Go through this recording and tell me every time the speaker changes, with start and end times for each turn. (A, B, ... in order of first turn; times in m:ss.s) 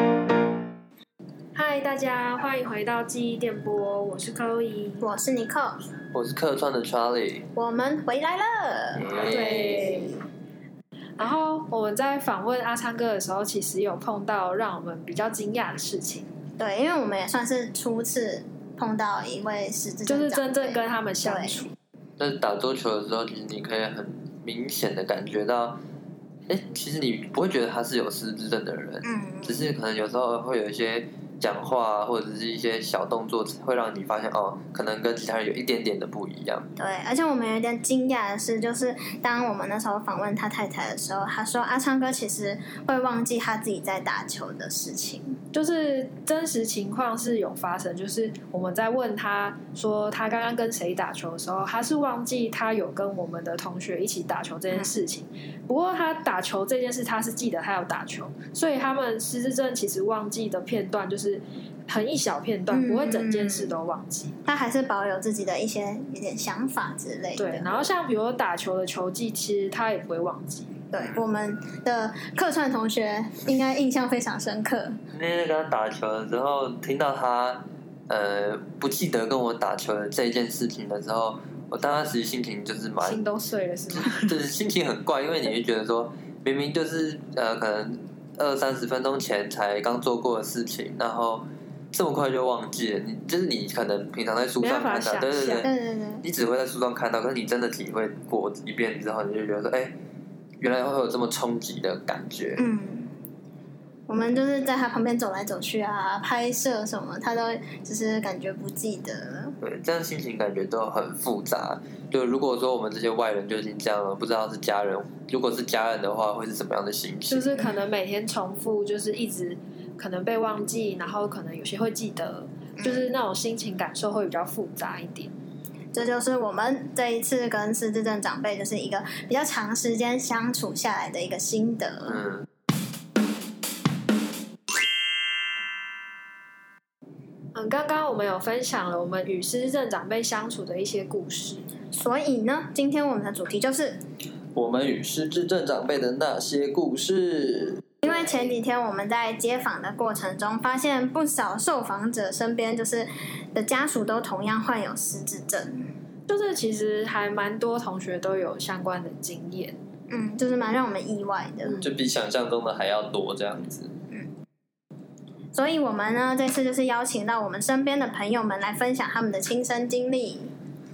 0:01.5-0:05.1 A
0:05.0-0:05.8 B
0:06.1-0:07.5 C
0:07.5-0:09.0 B
0:08.9-0:10.1 C
0:09.3-0:10.2 A
0:11.2-0:16.3 A
0:16.6-0:21.7 B
0:20.1-0:21.7 A
0:22.2-0:25.8 C
0:26.5-0:36.7 C
0:29.0-0:29.7 B
0:36.8-0:45.4 B
0:45.5-1:04.4 A
1:02.7-1:03.8 B
1:04.4-1:07.8 B
1:07.4-1:10.7 A
1:10.9-1:15.0 B
1:11.0-1:11.2 C
1:15.1-1:23.2 C
1:23.0-1:24.3 A
1:23.9-1:40.0 C
1:34.6-1:35.7 A
1:35.6-1:36.2 B
1:40.6-1:42.6 C
1:42.6-1:43.1 B
1:44.1-1:49.6 B
1:49.6-1:57.6 C
1:57.3-2:05.3 A
2:02.8-2:03.1 B
2:05.9-2:12.2 B
2:12.1-2:12.4 C
2:17.5-2:21.7 A
2:21.9-2:24.0 B
2:24.5-2:27.8 C
2:28.0-2:35.9 B
2:36.3-2:39.8 A
2:40.1-2:41.8 B
2:41.8-2:43.9 C
2:45.5-2:50.5 B